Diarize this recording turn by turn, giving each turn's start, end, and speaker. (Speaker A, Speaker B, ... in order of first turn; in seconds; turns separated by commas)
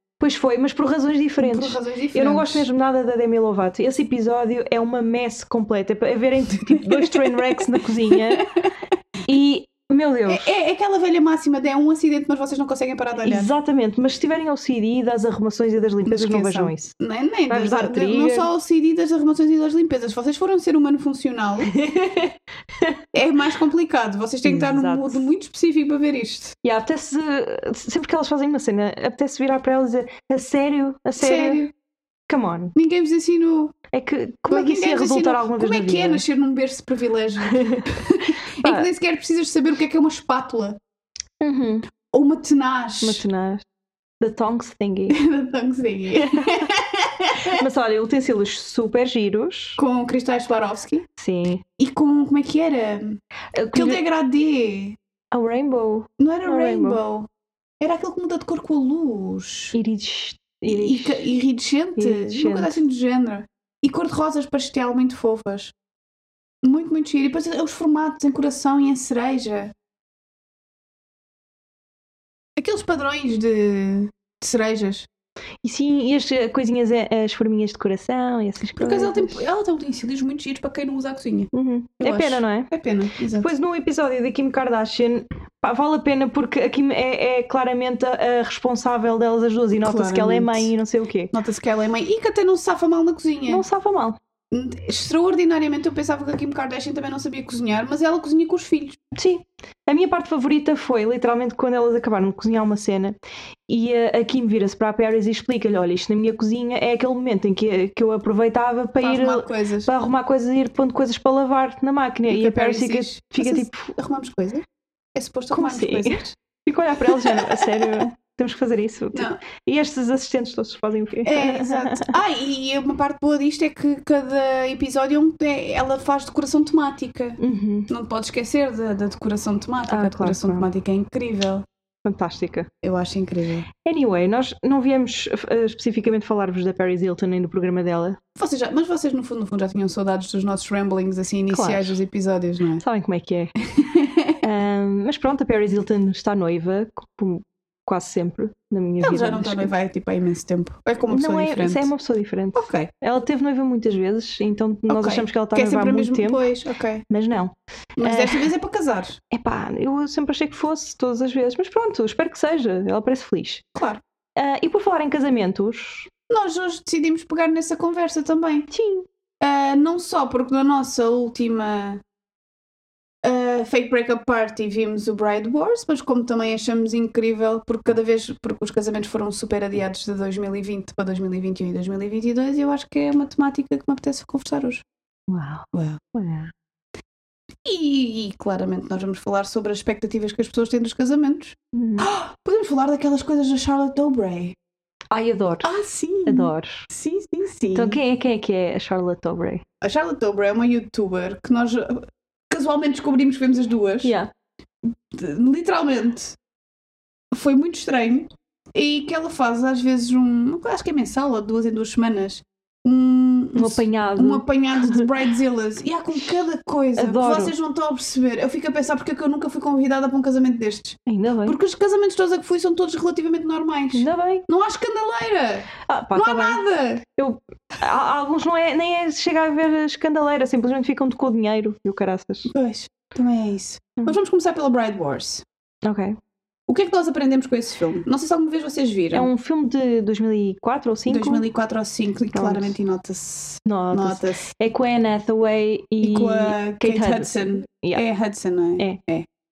Speaker A: 0.2-8.5, Speaker B: 1.4-2.7, Speaker B: 6.7-8.7, Speaker A: 9.3-10.6, Speaker B: 10.3-13.5, Speaker A: 13.2-16.9, Speaker B: 16.1-21.7, Speaker A: 17.5-18.5, Speaker A: 21.7-23.0, Speaker B: 23.1-26.6, Speaker A: 24.4-25.3, Speaker A: 26.6-31.6, Speaker B: 31.2-31.7, Speaker A: 32.3-32.7, Speaker B: 32.8-33.7, Speaker A: 33.9-36.2, Speaker B: 34.5-40.8, Speaker A: 37.5-37.9, Speaker A: 38.6-38.9, Speaker A: 41.4-41.9, Speaker B: 42.1-43.2, Speaker A: 43.0-43.6, Speaker A: 44.2-45.2, Speaker B: 45.1-47.6, Speaker A: 46.2-46.7, Speaker A: 47.5-49.8, Speaker B: 49.8-51.1, Speaker A: 51.2-51.6, Speaker B: 51.8-53.2, Speaker A: 53.5-54.0, Speaker B: 53.7-55.0, Speaker A: 55.3-57.0, Speaker B: 56.2-57.3, Speaker B: 57.8-59.8, Speaker A: 59.7-61.3, Speaker B: 60.6-65.7, Speaker A: 62.0-62.8, Speaker B: 66.6-69.7, Speaker B: 72.6-75.1, Speaker A: 75.6-79.4, Speaker B: 78.8-83.5, Speaker A: 81.5-82.7, Speaker A: 83.4-91.3, Speaker B: 89.8-90.7, Speaker B: 91.3-93.6, Speaker A: 93.5-94.2, Speaker B: 94.5-99.0, Speaker A: 99.2-103.2, Speaker A: 103.7-114.0, Speaker B: 109.0-109.9, Speaker B: 112.3-116.4, Speaker A: 115.5-122.1, Speaker B: 117.0-118.0, Speaker B: 119.1-119.4, Speaker B: 121.2-131.7, Speaker A: 127.4-127.9, Speaker A: 129.9-130.7, Speaker A: 132.0-132.7, Speaker B: 132.8-133.7, Speaker A: 133.8-138.2, Speaker B: 138.4-142.8, Speaker A: 141.5-142.0, Speaker A: 142.8-143.5, Speaker B: 143.7-144.4, Speaker A: 144.4-149.7, Speaker B: 149.0-151.9, Speaker A: 151.1-156.5, Speaker B: 152.6-152.9, Speaker B: 154.9-157.1, Speaker A: 157.1-158.5, Speaker B: 158.0-159.2, Speaker A: 159.3-163.7, Speaker B: 163.8-164.0, Speaker A: 164.4-166.1, Speaker B: 166.3-168.7, Speaker A: 168.7-169.1, Speaker B: 169.4-172.0, Speaker B: 173.2-184.8, Speaker A: 185.3-186.5, Speaker B: 185.7-186.0, Speaker B: 187.6-194.6, Speaker A: 191.7-192.1, Speaker A: 195.1-195.7, Speaker B: 195.6-198.0, Speaker A: 196.3-196.9, Speaker A: 197.8-199.6, Speaker B: 199.8-204.1, Speaker A: 204.0-204.3, Speaker B: 205.1-206.4, Speaker B: 207.3-227.0, Speaker A: 213.6-215.1, Speaker A: 217.0-217.5, Speaker A: 221.1-221.6, Speaker A: 223.9-224.5, Speaker A: 225.9-226.6, Speaker A: 227.2-232.5, Speaker B: 232.5-235.4, Speaker A: 235.8-236.2, Speaker B: 236.7-239.3, Speaker A: 239.1-241.4, Speaker B: 241.1-244.5, Speaker A: 242.3-242.7, Speaker A: 243.7-248.1, Speaker B: 246.0-249.3